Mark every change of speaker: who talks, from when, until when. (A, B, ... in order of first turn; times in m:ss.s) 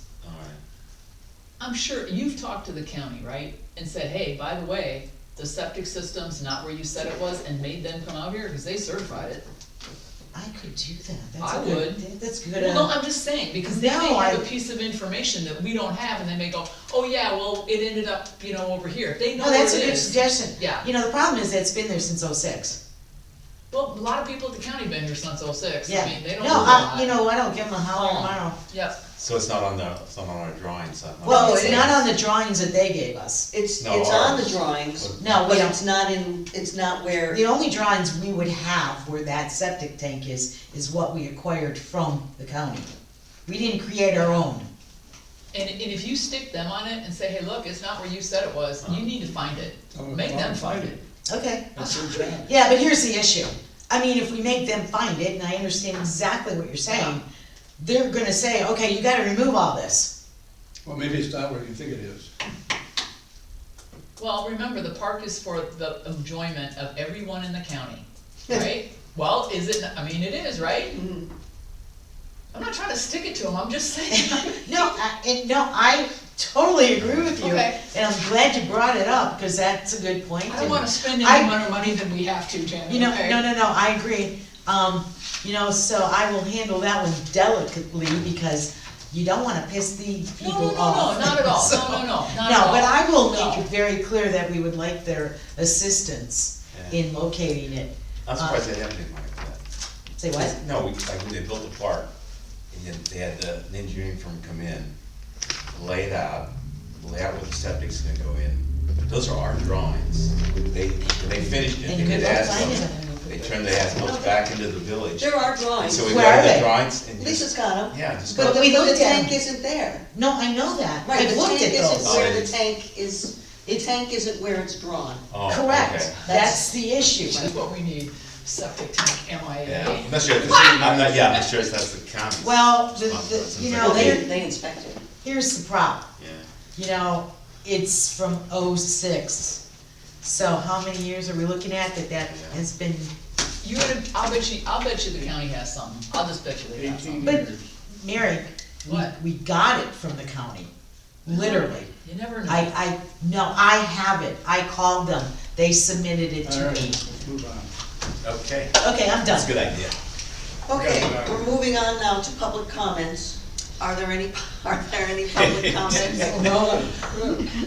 0:00.2-0:00.6 A
0:01.6-0:09.4 B
0:10.3-0:12.9 C
0:11.4-0:20.9 B
0:13.6-0:14.4 C
0:19.4-0:22.8 C
0:23.7-0:27.2 B
0:25.9-0:28.6 C
0:26.5-0:26.8 A
0:27.9-0:29.0 B
0:29.2-0:32.0 A
0:31.2-0:33.5 C
0:31.3-0:31.9 D
0:33.5-0:37.4 D
0:33.8-0:35.2 A
0:35.2-0:35.8 C
0:37.3-0:42.9 C
0:43.5-0:44.7 C
0:44.1-0:44.4 B
0:45.5-0:51.0 B
0:49.9-0:51.0 E
0:51.3-0:51.7 C
0:51.7-0:52.5 E
0:51.8-0:52.4 B
0:52.4-0:57.2 C
0:56.9-0:57.2 B
0:57.8-1:00.1 C
1:00.9-1:02.3 E
1:04.2-1:11.0 B
1:10.9-1:11.3 D
1:12.5-1:14.9 B
1:14.2-1:21.6 C
1:17.0-1:17.4 A
1:17.4-1:17.8 B
1:20.5-1:23.4 B
1:22.9-1:38.6 C
1:30.4-1:33.7 B
1:36.7-1:37.0 A
1:38.3-1:39.6 A
1:40.2-1:40.5 C
1:40.4-1:42.1 A
1:42.7-1:44.9 A
1:45.7-1:58.6 A
1:51.8-1:53.6 C
1:54.0-1:54.4 D
1:55.2-1:56.3 D
1:56.0-1:56.7 C
1:57.2-2:00.1 D
1:58.3-1:59.4 C
2:00.1-2:02.3 C
2:01.0-2:05.2 D
2:02.0-2:02.6 A
2:05.3-2:06.2 A
2:05.5-2:07.5 C
2:06.2-2:06.8 D
2:07.3-2:10.8 B
2:09.6-2:14.3 A
2:10.3-2:11.3 E
2:12.4-2:14.3 C
2:13.8-2:15.0 D
2:15.2-2:16.0 C
2:16.2-2:16.4 A
2:16.8-2:19.6 C
2:20.2-2:23.1 C
2:22.3-2:22.6 A
2:23.6-2:27.4 B
2:26.8-2:27.6 E
2:27.2-2:30.7 C
2:28.8-2:29.1 B
2:31.2-2:31.9 C
2:31.3-2:32.7 B
2:32.4-2:37.0 C
2:36.4-2:37.7 E
2:38.2-2:40.0 A
2:38.8-2:39.6 C
2:40.7-2:46.7 D
2:40.7-2:41.5 E
2:45.5-2:46.0 A
2:46.1-2:47.5 E